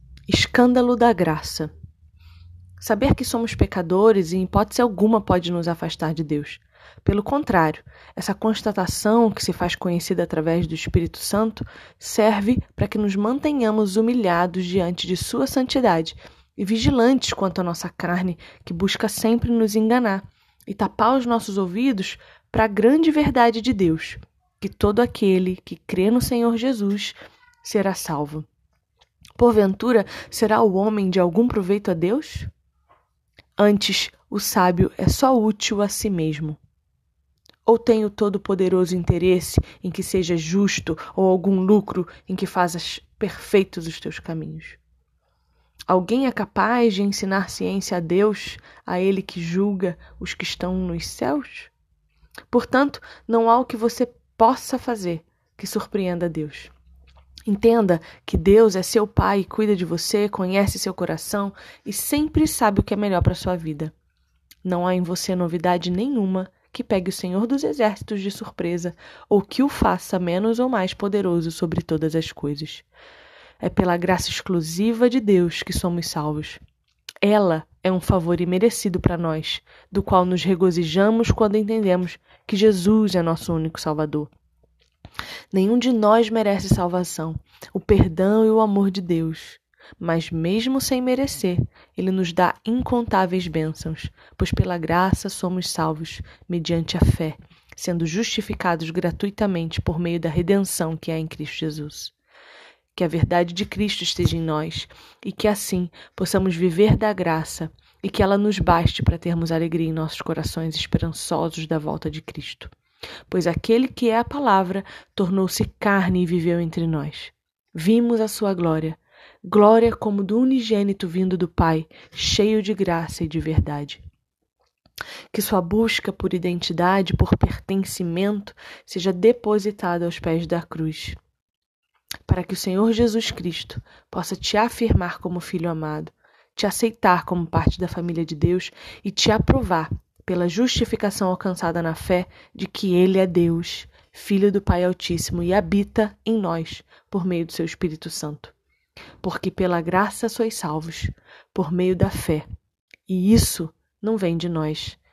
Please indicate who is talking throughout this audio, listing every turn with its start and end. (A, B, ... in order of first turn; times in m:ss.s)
0:00.3-0:01.7 A
0:02.8-0:28.5 A
0:29.4-0:32.5 A
0:33.6-0:36.6 A
0:37.7-0:44.8 A
0:45.9-0:51.7 A
0:52.5-0:56.7 A
0:57.5-1:03.9 A
1:04.6-1:12.8 A
1:13.6-1:16.6 A
1:17.2-1:24.3 A
1:25.5-1:42.1 A
1:43.0-1:52.7 A
1:53.3-2:04.0 A
2:05.3-2:11.2 A
2:12.3-2:28.5 A
2:29.2-2:32.4 A
2:33.1-2:35.0 A